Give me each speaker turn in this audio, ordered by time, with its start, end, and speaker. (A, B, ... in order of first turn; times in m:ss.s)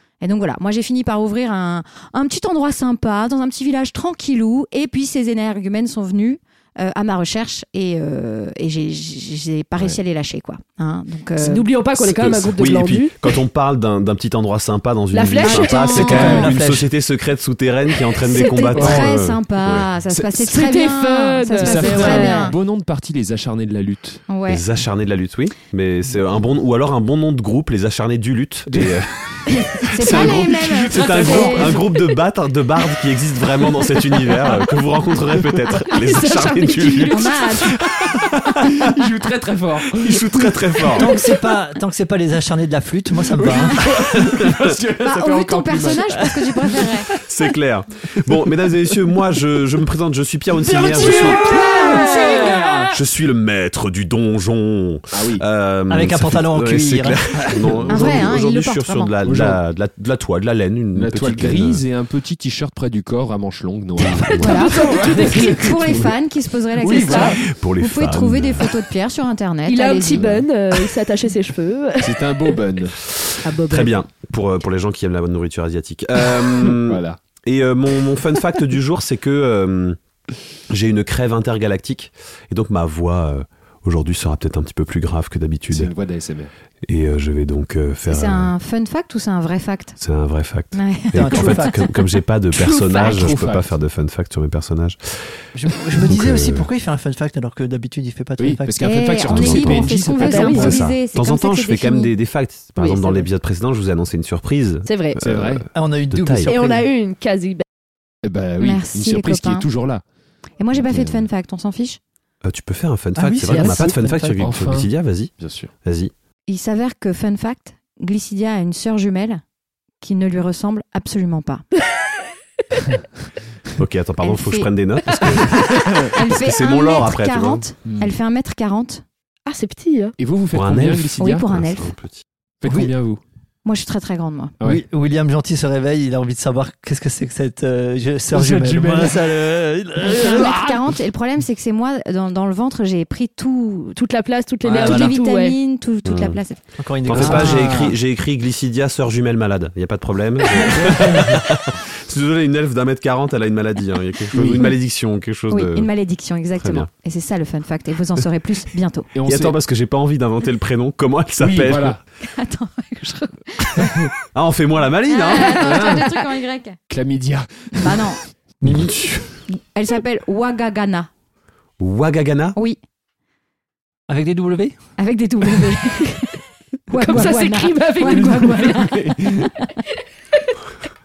0:00.2-0:11.6 A
0:11.4-0:13.1 B
0:12.0-0:19.4 C
0:15.1-0:16.3 B
0:15.4-0:16.6 A
0:16.0-0:16.6 D
0:16.0-0:16.9 E
0:18.2-0:22.6 A
0:18.7-0:20.5 D
0:20.4-0:22.5 B
0:21.5-0:24.2 D
0:24.3-0:24.6 A
0:24.5-0:38.9 C
0:28.7-0:31.8 D
0:29.7-0:31.8 A
0:31.2-0:31.8 B
0:33.9-0:34.6 D
0:35.9-0:37.4 B
0:37.0-0:37.8 A
0:38.6-0:41.2 D
0:40.0-0:41.1 C
0:40.9-0:43.8 E
0:43.4-0:47.1 D
0:44.1-0:44.7 C
0:45.0-0:47.1 A
0:47.1-0:51.4 C
0:50.6-0:52.9 D
0:50.9-0:52.5 A
0:51.0-0:52.6 B
0:52.9-1:01.8 C
0:55.1-0:55.4 D
0:55.9-0:57.4 E
0:57.4-0:58.3 D
0:57.9-0:59.1 A
0:59.2-0:59.6 D
1:00.9-1:05.6 D
1:04.0-1:05.8 B
1:04.3-1:04.7 C
1:04.4-1:10.4 A
1:06.8-1:07.4 D
1:06.9-1:07.4 B
1:07.4-1:08.7 C
1:09.6-1:12.6 B
1:10.1-1:10.4 D
1:12.0-1:13.0 D
1:13.2-1:20.0 C
1:13.4-1:14.0 B
1:16.3-1:17.2 D
1:20.7-1:25.9 C
1:25.7-1:26.5 D
1:26.8-1:28.5 C
1:28.0-1:30.0 A
1:30.0-1:35.0 C
1:30.7-1:31.8 A
1:31.1-1:31.8 E
1:32.5-1:33.7 D
1:32.9-1:33.3 A
1:35.5-1:39.1 E
1:36.0-1:36.6 C
1:38.4-1:41.0 D
1:38.8-1:42.1 A
1:39.2-1:39.9 C
1:40.2-1:40.8 B
1:40.5-1:46.5 C
1:42.8-1:43.3 B
1:44.8-1:45.2 B
1:45.2-1:45.7 D
1:45.7-1:46.9 E
1:46.5-1:47.6 B
1:48.2-1:50.0 D
1:48.6-1:49.6 A
1:50.6-1:52.0 A
1:50.7-1:51.3 D
1:52.4-1:55.3 C
1:53.2-1:54.2 E
1:53.5-1:54.0 B
1:53.5-1:55.7 D
1:55.8-1:56.1 C
1:56.5-1:59.4 A
2:00.0-2:01.6 A
2:03.8-2:07.6 C
2:04.2-2:09.0 A
2:05.4-2:06.2 D
2:07.8-2:08.1 D
2:09.4-2:10.2 B
2:10.2-2:11.5 D
2:10.5-2:12.2 C
2:11.2-2:11.9 A
2:12.6-2:13.2 D
2:12.6-2:12.9 E
2:13.6-2:14.5 A
2:14.6-2:20.8 E
2:18.3-2:19.4 D
2:20.0-2:24.0 A
2:20.1-2:20.6 D
2:24.0-2:25.6 B
2:24.6-2:25.2 E
2:24.8-2:26.6 A
2:26.0-2:26.4 C
2:26.8-2:27.7 E
2:27.0-2:35.9 C
2:27.1-2:28.0 D
2:30.6-2:31.4 D
2:34.3-2:34.7 D
2:35.5-2:39.1 A
2:36.6-2:36.9 C
2:39.1-2:39.6 D
2:39.2-2:42.0 C
2:41.4-2:42.0 D
2:42.2-2:44.0 A
2:43.8-2:44.1 D
2:44.3-2:45.6 C
2:45.1-2:46.8 A
2:45.4-2:46.1 B
2:45.5-2:46.1 D
2:46.9-2:48.2 D
2:47.8-2:48.2 A
2:48.6-2:49.4 C
2:49.5-2:51.1 A
2:51.8-2:52.6 C
2:54.1-2:54.8 E
2:55.0-2:56.3 A
2:56.9-2:59.7 A
2:56.9-2:58.8 B
2:58.0-2:59.5 D